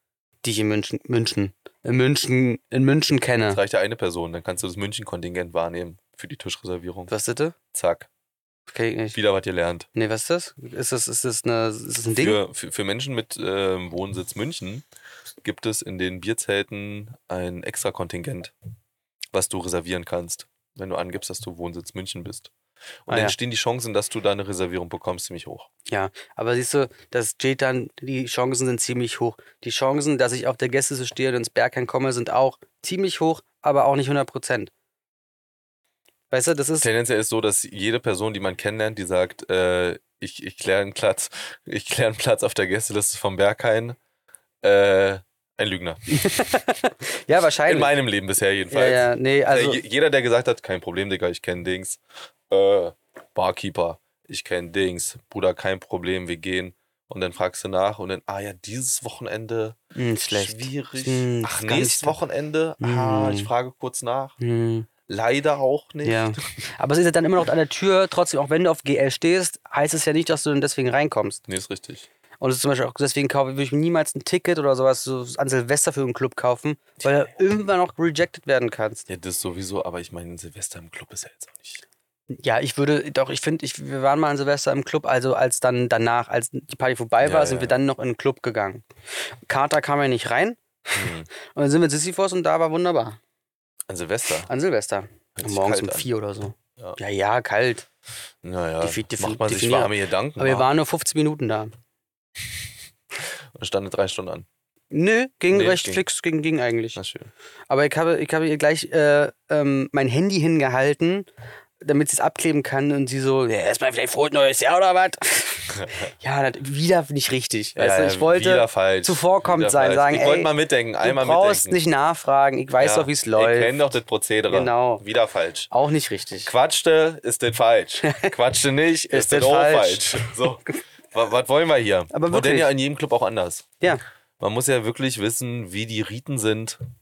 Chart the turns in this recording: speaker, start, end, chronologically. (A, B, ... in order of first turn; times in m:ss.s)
0:00.4-0:03.6 A
0:03.5-0:07.1 B
0:07.1-0:07.5 A
0:07.7-0:08.1 B
0:08.7-0:09.2 A
0:09.1-0:09.9 B
0:09.9-0:12.4 A
0:12.2-0:14.8 B
0:15.4-0:18.5 B
0:19.3-0:22.5 B
0:23.0-0:25.7 B
0:23.1-0:23.4 A
0:25.9-0:34.7 A
0:36.3-0:36.9 A
0:36.8-0:44.0 B
0:44.6-0:46.0 B
0:46.1-0:47.9 A
0:47.6-0:59.8 B
0:48.7-0:49.8 A
0:59.9-1:02.2 A
1:00.3-1:04.4 B
1:02.8-1:03.5 A
1:04.4-1:04.9 A
1:05.1-1:06.4 B
1:06.0-1:11.4 A
1:11.5-1:12.1 B
1:12.4-1:19.0 A
1:19.1-1:21.8 B
1:22.3-1:28.8 A
1:27.2-1:27.8 B
1:29.4-1:33.2 A
1:30.9-1:31.3 B
1:33.9-1:34.5 B
1:34.5-1:37.8 A
1:35.3-1:36.1 B
1:38.4-1:40.7 B
1:38.8-1:41.7 A
1:43.5-1:44.4 B
1:44.9-1:47.0 A
1:45.5-1:46.0 B
1:46.9-1:47.3 B
1:47.7-1:51.3 A
1:51.8-2:03.8 A
1:57.8-2:01.8 B
2:02.8-2:05.7 B
2:04.5-2:05.0 A
2:05.7-2:06.5 A
2:06.4-2:13.7 B
2:08.0-2:08.3 A
2:09.1-2:10.4 A
2:12.1-2:12.7 A
2:14.4-2:16.8 B